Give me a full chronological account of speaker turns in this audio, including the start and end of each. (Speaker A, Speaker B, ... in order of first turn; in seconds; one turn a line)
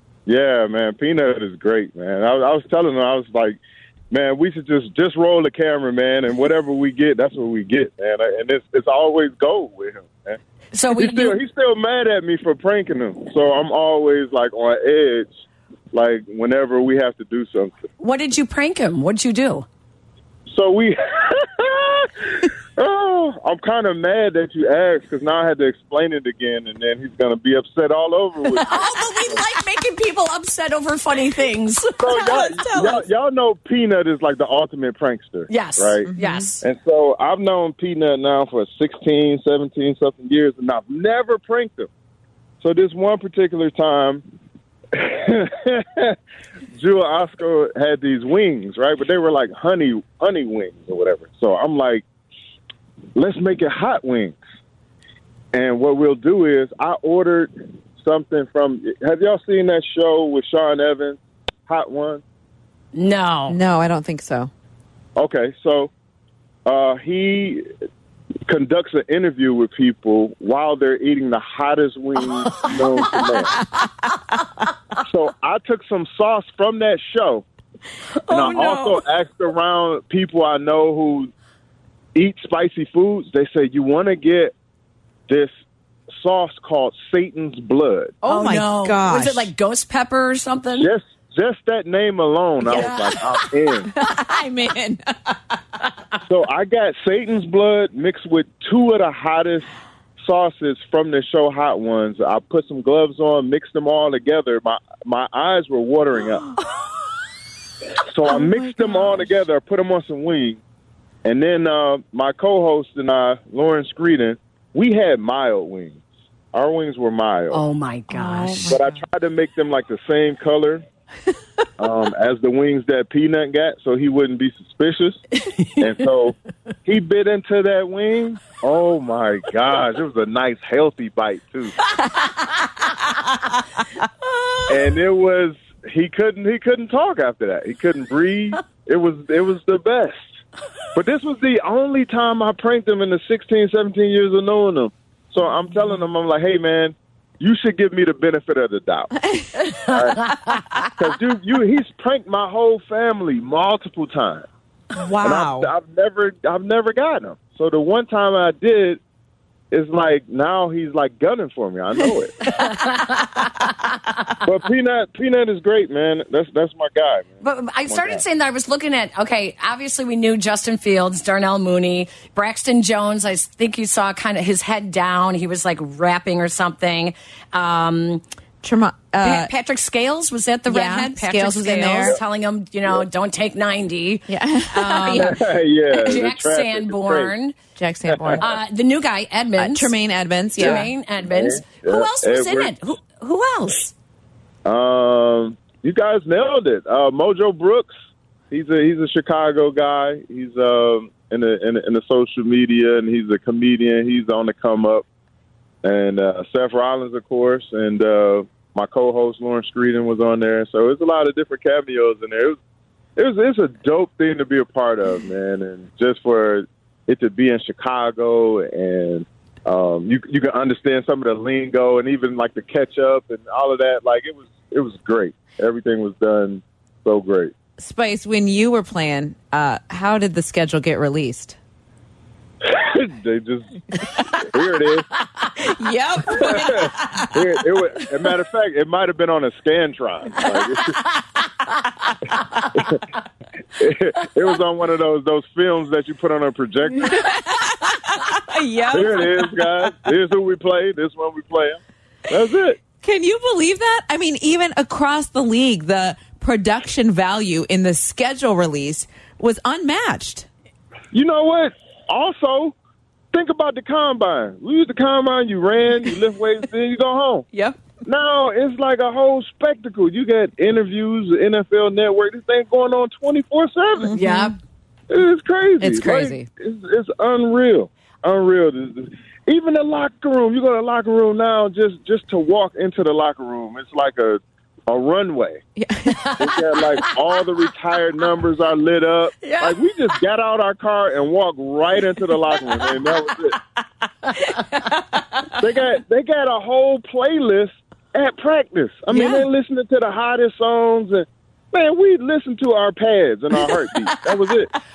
Speaker A: 0.2-3.6
Speaker A: 4.1-10.4
Speaker B: 10.7-11.4
Speaker A: 10.9-15.3
Speaker A: 15.9-17.8
Speaker B: 18.0-19.6
Speaker A: 20.5-28.8
Speaker B: 28.6-32.3
Speaker A: 32.0-36.0
Speaker C: 32.1-33.0
Speaker B: 35.5-36.6
Speaker C: 36.1-36.5
Speaker A: 36.6-41.9
Speaker A: 42.6-44.2
Speaker A: 44.9-46.1
Speaker A: 46.8-52.0
Speaker A: 53.1-54.4
Speaker A: 55.5-62.2
Speaker B: 62.9-63.6
Speaker C: 63.5-64.5
Speaker A: 65.2-65.9
Speaker A: 66.7-67.6
Speaker A: 68.5-73.6
Speaker B: 72.5-73.2
Speaker A: 75.0-77.4
Speaker C: 78.3-79.0
Speaker A: 78.3-81.3
Speaker A: 82.1-84.5
Speaker A: 86.2-88.1
Speaker C: 88.2-89.5
Speaker B: 88.2-90.9
Speaker A: 90.8-93.9
Speaker C: 92.6-95.6
Speaker A: 96.3-99.7
Speaker A: 100.2-106.5
Speaker A: 108.0-110.6
Speaker C: 108.2-109.4
Speaker A: 111.2-116.0
Speaker A: 116.5-117.6
Speaker B: 117.5-118.7
Speaker C: 118.1-119.0
Speaker A: 118.7-120.8
Speaker A: 121.8-125.2
Speaker A: 125.8-131.8
Speaker A: 134.7-140.2
Speaker A: 140.9-149.2
Speaker C: 149.3-149.6
Speaker A: 149.8-150.3
Speaker A: 150.9-154.4
Speaker C: 154.9-155.7
Speaker A: 155.2-159.0
Speaker A: 159.7-162.5
Speaker B: 162.6-163.1
Speaker A: 164.4-168.2
Speaker B: 167.4-178.2
Speaker C: 178.6-179.5
Speaker B: 179.2-185.4
Speaker C: 180.7-182.2
Speaker C: 184.3-185.4
Speaker A: 185.1-187.3
Speaker B: 185.9-187.5
Speaker C: 187.8-188.5
Speaker B: 188.4-189.9
Speaker C: 189.6-190.9
Speaker B: 190.6-193.9
Speaker A: 190.6-192.7
Speaker A: 194.6-197.9
Speaker A: 198.5-205.0
Speaker A: 205.8-212.6
Speaker A: 213.2-227.5
Speaker C: 227.8-231.6
Speaker A: 232.6-233.7
Speaker A: 234.3-235.1
Speaker C: 235.6-237.4
Speaker A: 236.3-241.0
Speaker A: 242.7-243.0
Speaker A: 243.8-247.4
Speaker C: 247.0-249.7
Speaker A: 248.9-252.8
Speaker C: 253.0-260.5
Speaker A: 261.1-262.7
Speaker A: 263.3-267.4
Speaker C: 267.5-267.8
Speaker A: 268.0-274.1
Speaker C: 274.0-274.5
Speaker B: 274.1-274.6
Speaker A: 275.1-285.6
Speaker C: 275.8-276.5
Speaker C: 285.8-286.5
Speaker B: 286.1-286.4
Speaker A: 286.4-293.6
Speaker B: 289.4-289.9
Speaker B: 294.2-294.6
Speaker A: 295.6-304.7
Speaker C: 299.1-299.5